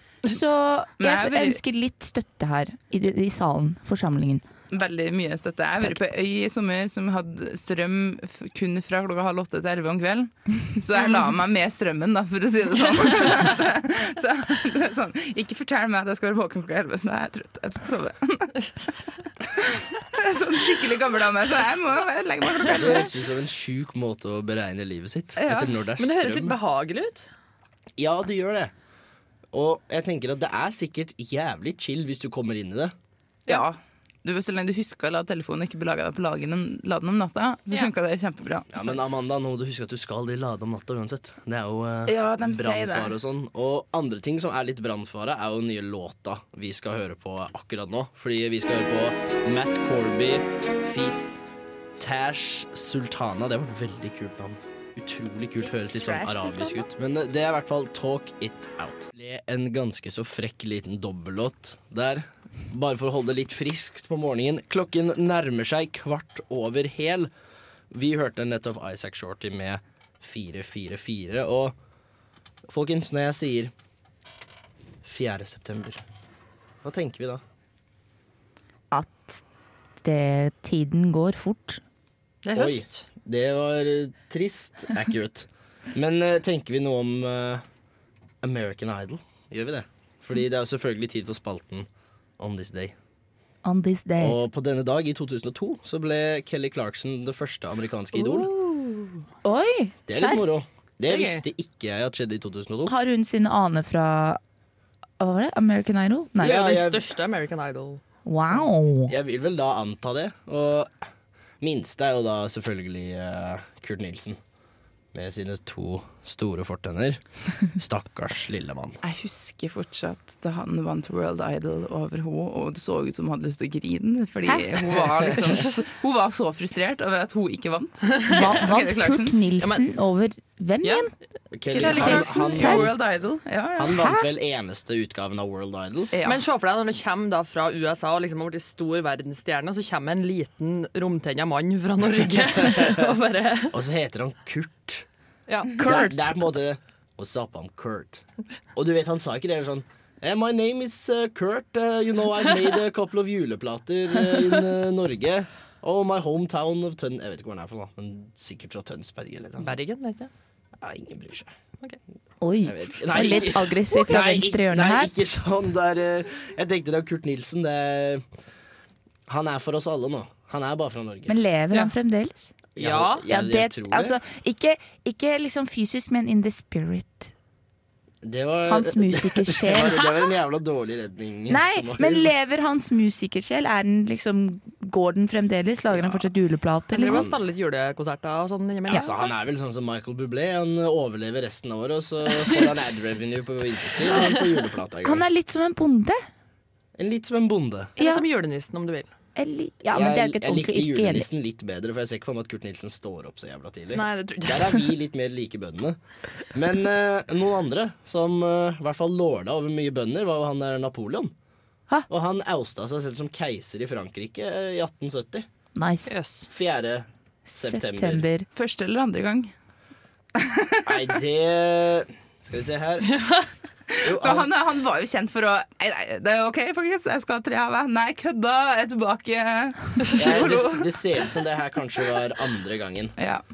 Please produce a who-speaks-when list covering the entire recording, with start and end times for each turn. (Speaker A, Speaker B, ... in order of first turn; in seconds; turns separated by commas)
Speaker A: 0.2-4.4, Speaker B: 1.0-1.6, Speaker B: 4.7-23.1, Speaker C: 22.7-26.6, Speaker B: 25.4-25.7, Speaker D: 26.0-27.3, Speaker C: 28.0-28.7, Speaker C: 29.5-32.9, Speaker B: 33.5-39.0, Speaker C: 38.7-51.3, Speaker B: 42.1-43.1, Speaker C: 52.0-67.3, Speaker A: 55.6-56.9, Speaker C: 67.9-71.8, Speaker C: 72.7-73.7, Speaker C: 75.0-76.0, Speaker C: 76.8-77.4, Speaker A: 78.9-79.4, Speaker A: 80.0-81.8, Speaker D: 82.4-83.0, Speaker C: 82.5-87.6, Speaker C: 88.4-91.8, Speaker C: 92.4-92.9, Speaker A: 93.6-94.4, Speaker C: 94.2-98.5, Speaker D: 98.2-99.2, Speaker A: 99.4-100.4, Speaker C: 100.1-102.9, Speaker D: 101.1-101.4, Speaker A: 102.9-104.4, Speaker A: 105.2-106.6, Speaker C: 106.4-107.0, Speaker D: 106.4-108.6, Speaker A: 108.2-109.1, Speaker C: 109.1-111.0, Speaker C: 111.6-114.4, Speaker C: 115.1-119.0, Speaker B: 119.0-129.3, Speaker C: 124.8-125.7, Speaker D: 128.1-128.8, Speaker A: 128.3-131.1, Speaker D: 129.6-129.8, Speaker C: 131.5-133.0, Speaker B: 131.7-134.1, Speaker D: 131.8-132.6, Speaker A: 131.9-132.9, Speaker C: 133.8-136.1, Speaker B: 136.1-136.4, Speaker D: 136.2-143.8, Speaker C: 142.3-143.1, Speaker C: 143.7-145.1, Speaker D: 145.5-145.7, Speaker A: 145.8-146.6, Speaker C: 145.8-159.8, Speaker D: 159.6-160.3, Speaker C: 160.8-161.5, Speaker A: 162.4-165.1, Speaker C: 162.6-168.2, Speaker C: 169.3-171.3, Speaker A: 171.3-172.5, Speaker D: 172.8-173.3, Speaker C: 172.8-174.2, Speaker A: 173.3-177.3, Speaker C: 178.2-182.3, Speaker A: 178.7-180.2, Speaker A: 181.5-187.3, Speaker C: 185.9-186.2, Speaker D: 186.9-189.3, Speaker C: 187.0-187.4, Speaker C: 188.9-195.2, Speaker D: 194.1-194.4, Speaker A: 195.0-196.2, Speaker C: 197.0-197.9, Speaker D: 198.0-199.1, Speaker A: 198.0-198.2, Speaker A: 199.3-201.3, Speaker C: 199.9-211.3, Speaker D: 203.9-204.9, Speaker C: 212.1-215.4, Speaker A: 215.7-216.1, Speaker D: 216.1-216.5, Speaker C: 216.5-218.3, Speaker A: 217.5-218.4, Speaker B: 218.5-219.5, Speaker B: 220.3-221.1, Speaker C: 220.8-223.3, Speaker D: 223.1-223.5, Speaker C: 224.0-224.5, Speaker B: 224.0-231.0, Speaker C: 230.1-233.2, Speaker B: 233.2-233.4